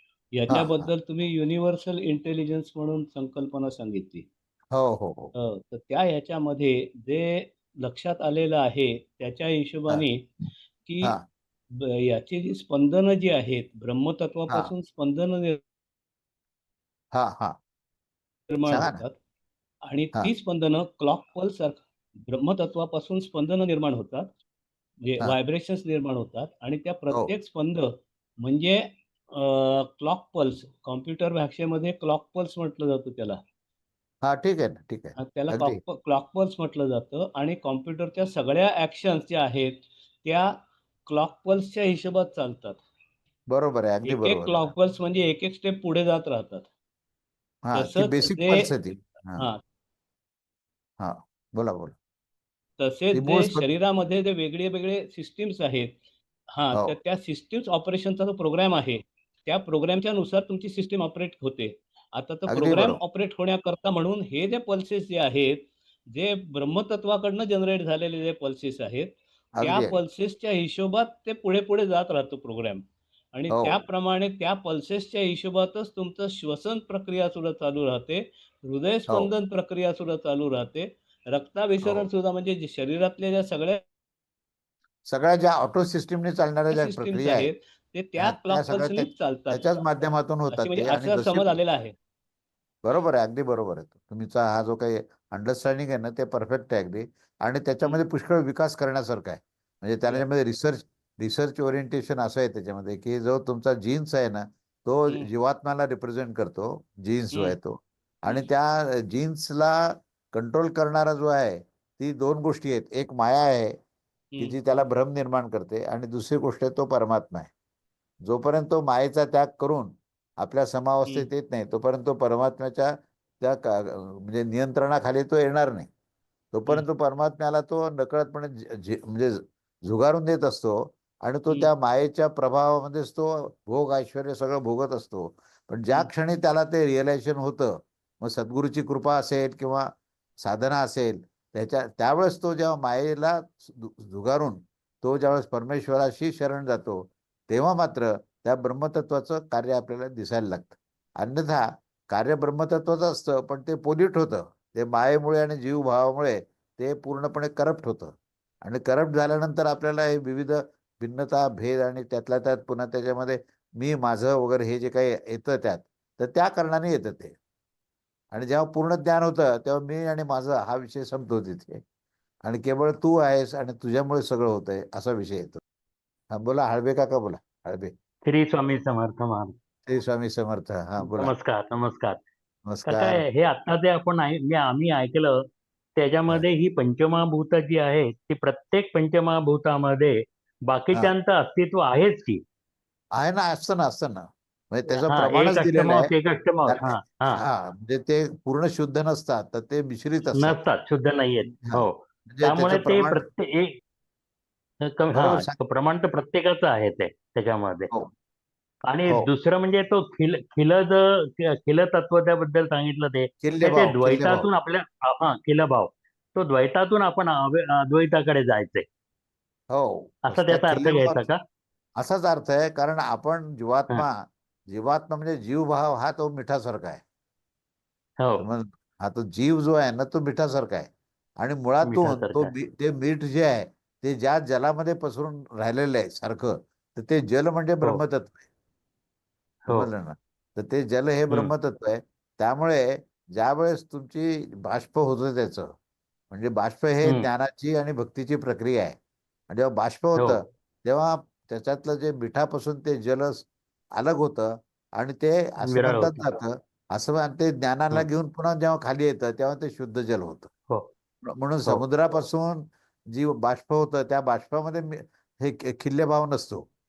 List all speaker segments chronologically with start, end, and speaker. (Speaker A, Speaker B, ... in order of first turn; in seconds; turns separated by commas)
Speaker A: 0.3-4.2, Speaker B: 0.5-0.9, Speaker B: 4.7-5.3, Speaker A: 5.4-10.2, Speaker A: 10.8-11.1, Speaker A: 12.0-15.6, Speaker B: 17.1-17.6, Speaker A: 18.5-19.1, Speaker B: 18.7-19.0, Speaker A: 19.9-24.3, Speaker A: 25.0-27.9, Speaker A: 28.4-28.8, Speaker A: 29.3-33.4, Speaker B: 34.2-35.8, Speaker A: 35.2-40.5, Speaker A: 41.1-42.8, Speaker B: 43.5-44.7, Speaker A: 44.0-46.6, Speaker B: 47.6-49.5, Speaker A: 47.7-48.7, Speaker B: 51.0-51.9, Speaker A: 52.8-55.9, Speaker B: 53.1-53.7, Speaker A: 56.5-69.1, Speaker B: 62.5-63.0, Speaker B: 69.6-70.0, Speaker A: 69.6-83.8, Speaker B: 73.5-73.8, Speaker B: 85.1-87.5, Speaker A: 86.7-89.7, Speaker B: 88.2-91.6, Speaker A: 90.5-91.9, Speaker B: 92.8-109.8, Speaker B: 110.3-113.8, Speaker B: 114.4-117.5, Speaker B: 118.2-125.9, Speaker B: 126.5-139.8, Speaker B: 140.4-167.4, Speaker B: 168.3-171.8, Speaker B: 172.4-175.6, Speaker B: 176.3-177.9, Speaker C: 178.2-179.5, Speaker B: 179.9-181.3, Speaker C: 181.0-182.2, Speaker B: 182.7-183.2, Speaker C: 182.8-185.3, Speaker C: 186.0-190.2, Speaker C: 190.7-192.4, Speaker B: 193.2-196.1, Speaker C: 195.1-197.4, Speaker B: 196.7-200.6, Speaker C: 200.4-203.7, Speaker B: 201.7-203.2, Speaker C: 204.9-207.9, Speaker B: 205.1-205.5, Speaker C: 208.9-218.8, Speaker B: 213.4-214.4, Speaker B: 219.7-221.2, Speaker C: 220.3-221.4, Speaker B: 222.0-227.0, Speaker B: 228.4-238.4, Speaker C: 231.8-232.5, Speaker B: 239.7-245.7, Speaker B: 246.3-249.0, Speaker B: 249.5-260.5, Speaker C: 255.7-256.3, Speaker B: 261.3-266.6